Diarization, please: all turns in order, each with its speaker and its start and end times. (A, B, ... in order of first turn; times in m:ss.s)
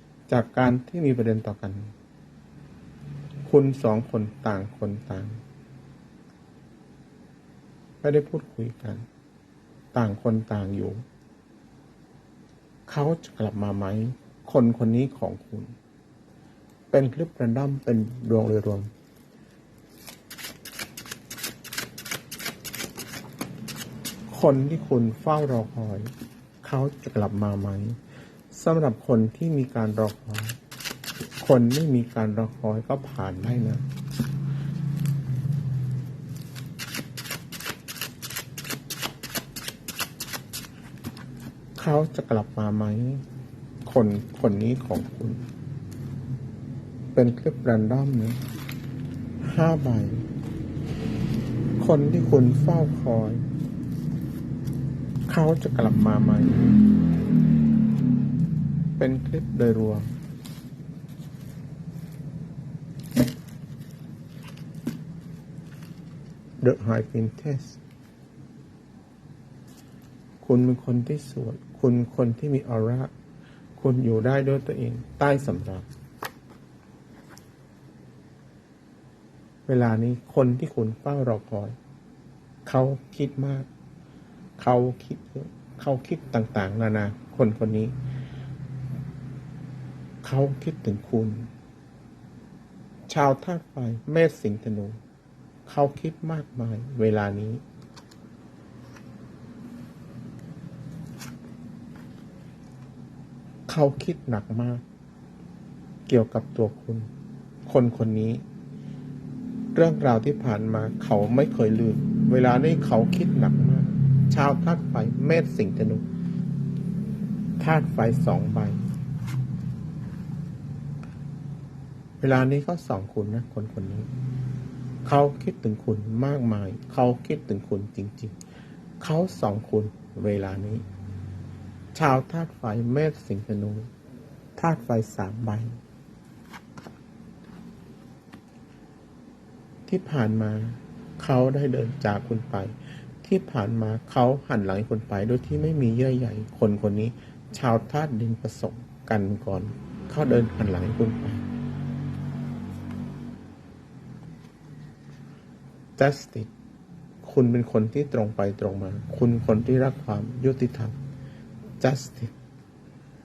0:00.3-0:01.9 A
0:03.5-0:05.4 A
0:08.0-0:09.0 A
0:09.9-0:11.0 A
0:12.9-0:15.7 A
0:16.9-0:18.9 A
0:24.3-0:26.1 A
0:26.6-0:28.0 A
0:28.5-0:30.6 A
0:31.4-0:33.8 A
0:41.8-0:43.2 A
0:43.8-0:45.4 A
0:47.1-0:48.4 A
0:49.4-0:50.2 A
0:51.8-0:53.4 A
0:55.3-0:56.8 A
0:59.0-1:00.1 A
1:06.6-1:07.8 A
1:10.4-1:13.1 A
1:13.8-1:15.8 A
1:19.7-1:21.8 A
1:22.6-1:23.7 A
1:24.6-1:27.9 A
1:30.2-1:31.5 A
1:33.1-1:35.0 A
1:35.6-1:37.6 A
1:43.7-1:44.8 A
1:46.1-1:47.1 A
1:47.6-1:48.4 A
1:49.7-1:56.0 A
1:57.6-1:58.9 A
2:02.2-2:04.1 A
2:05.0-2:08.4 A
2:09.0-2:10.8 A
2:11.9-2:13.9 A
2:14.6-2:15.8 A
2:19.9-2:31.4 A
2:36.0-2:36.5 A
2:37.2-2:41.0 A
2:41.8-2:42.3 A